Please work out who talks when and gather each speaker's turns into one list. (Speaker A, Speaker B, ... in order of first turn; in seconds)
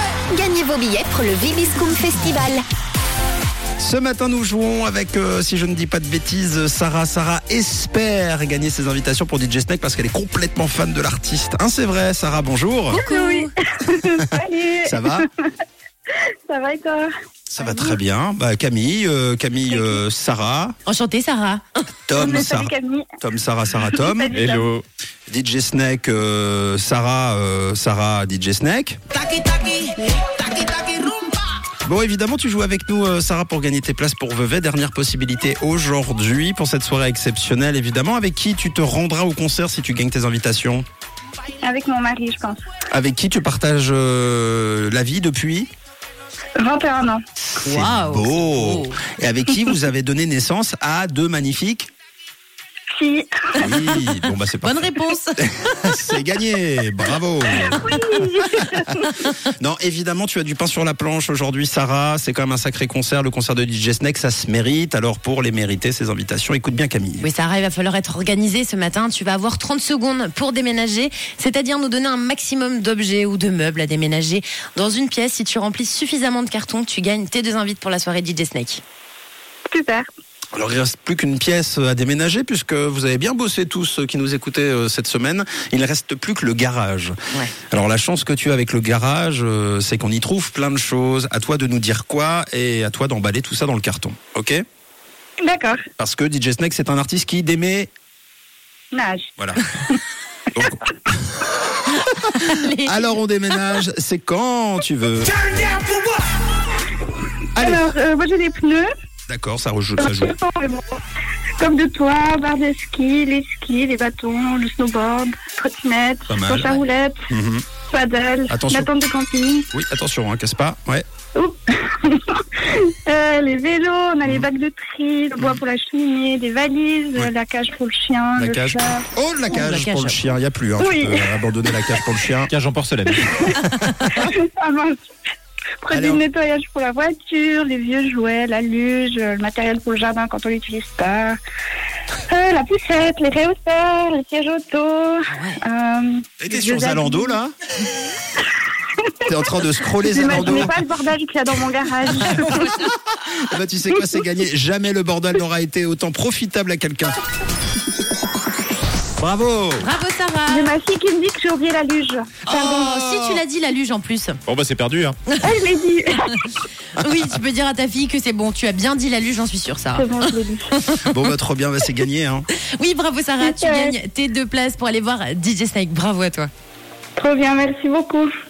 Speaker A: 0.3-2.6
Speaker B: 3.8-13.0, 14.8-15.2, 17.5-20.7, 22.1-24.4, 25.3-29.0, 31.8-40.8, 42.9-45.7, 47.4-51.9, 53.6-58.0, 58.6-67.3, 80.5-87.1, 87.7-94.6, 96.0-97.9, 100.5-101.2, 101.9-105.6, 107.5-107.8, 109.3-110.3, 116.3-116.8, 117.3-117.6, 118.5-118.9, 119.7-121.0, 124.2-124.5, 128.4-132.5, 135.9-136.2, 146.4-147.5, 149.2-150.7, 152.3-157.2, 159.2-159.9, 162.9-163.4, 167.0-167.3, 171.0-172.5
Speaker C: 12.9-13.5, 20.8-21.8, 47.6-49.0, 53.6-54.0, 54.6-56.2, 67.2-78.8, 102.2-103.2, 129.5-130.2, 133.7-134.2, 145.3-145.6, 152.2-152.9, 159.8-160.7, 162.5-164.4, 166.9-171.3, 172.8-176.5
Speaker D: 13.1-15.5, 16.1-17.9, 22.2-23.1, 24.0-24.7, 41.6-42.6, 46.6-47.2, 52.9-53.5, 57.8-59.1, 79.7-80.0, 95.4-95.8, 98.9-99.3, 107.6-108.9, 110.0-111.0, 111.6-117.3, 117.9-119.7, 121.3-129.1, 130.8-131.2, 133.2-133.6, 134.2-135.0, 135.8-141.3, 142.3-147.4, 150.1-152.8, 160.5-162.9, 165.4-166.4, 169.9-170.7, 173.4-173.9, 177.2-178.3
Speaker E: 24.3-24.8, 29.2-31.3, 132.4-133.5, 164.4-165.3